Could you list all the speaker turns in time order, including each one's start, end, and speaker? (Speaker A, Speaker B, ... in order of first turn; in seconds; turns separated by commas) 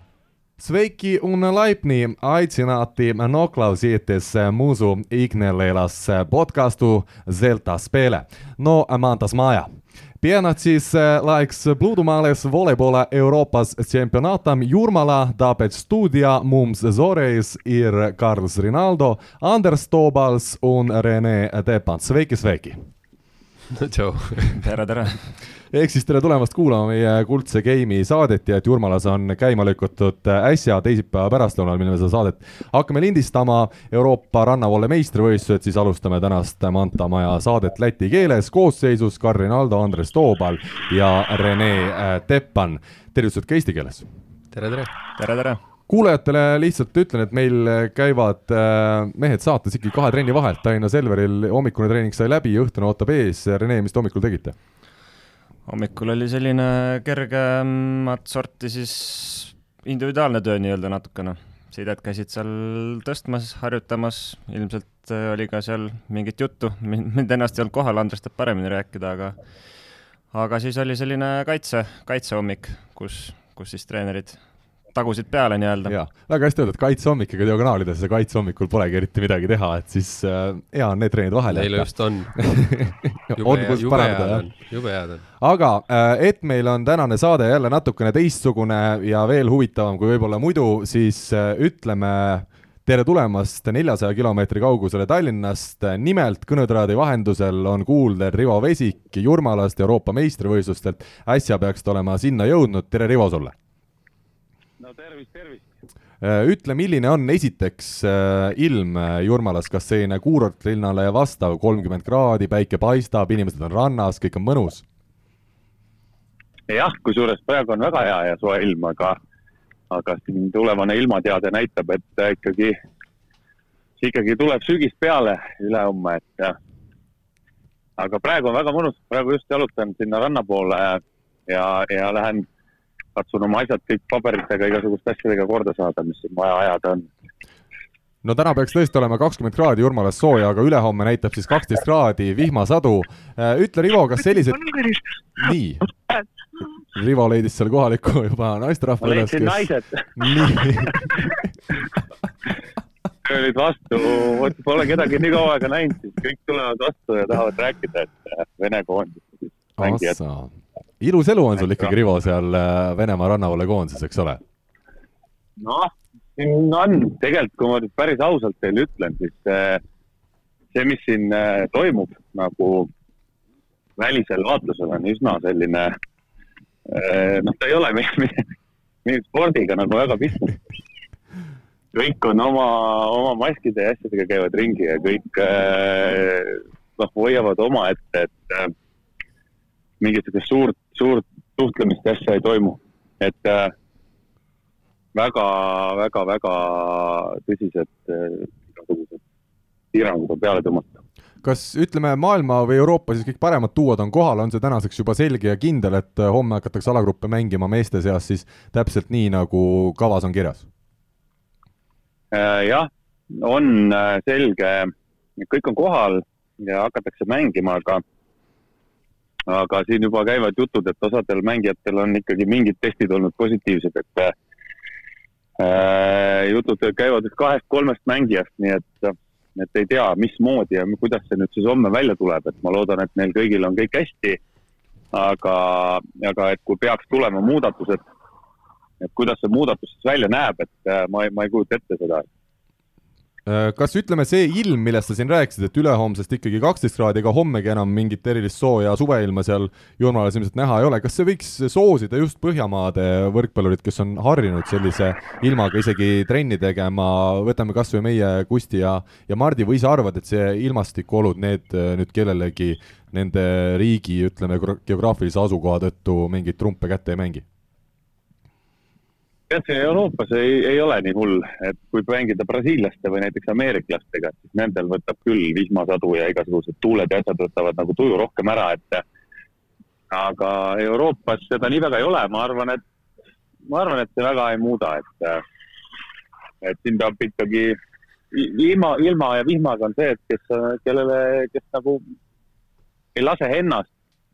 Speaker A: 0.6-9.7, Speaker A: 10.2-22.9, Speaker B: 23.7-24.6, Speaker C: 24.5-25.3, Speaker A: 25.7-44.0, Speaker B: 44.5-44.9, Speaker C: 45.2-45.6, Speaker A: 45.9-54.5, Speaker C: 55.7-69.4, Speaker C: 70.3-74.4, Speaker C: 74.9-75.9, Speaker A: 75.9-84.5, Speaker B: 81.5-82.5, Speaker B: 83.3-85.2, Speaker A: 85.4-103.5, Speaker D: 104.8-105.7, Speaker A: 106.2-114.8, Speaker D: 116.7-119.2, Speaker D: 119.9-122.7, Speaker D: 124.0-126.5, Speaker D: 128.0-132.4, Speaker D: 133.2-137.1, Speaker A: 138.2-145.9, Speaker A: 146.9-151.4, Speaker D: 149.0-151.2, Speaker D: 153.2-160.2, Speaker A: 159.8-164.4, Speaker D: 165.6-169.8, Speaker D: 170.7-172.9, Speaker D: 174.0-175.9, Speaker D: 176.9-178.4, Speaker D: 179.0-180.6, Speaker D: 181.9-188.7, Speaker D: 190.0-193.7, Speaker D: 195.1-199.2, Speaker D: 199.9-201.0, Speaker A: 201.4-210.7, Speaker D: 212.3-218.0, Speaker D: 219.5-224.3, Speaker D: 225.6-234.4, Speaker D: 235.1-238.0, Speaker D: 239.0-242.3, Speaker A: 243.4-267.4, Speaker D: 269.5-279.0, Speaker D: 280.1-282.8, Speaker D: 283.7-285.4, Speaker D: 286.6-287.8, Speaker D: 288.3-292.0, Speaker D: 293.1-293.9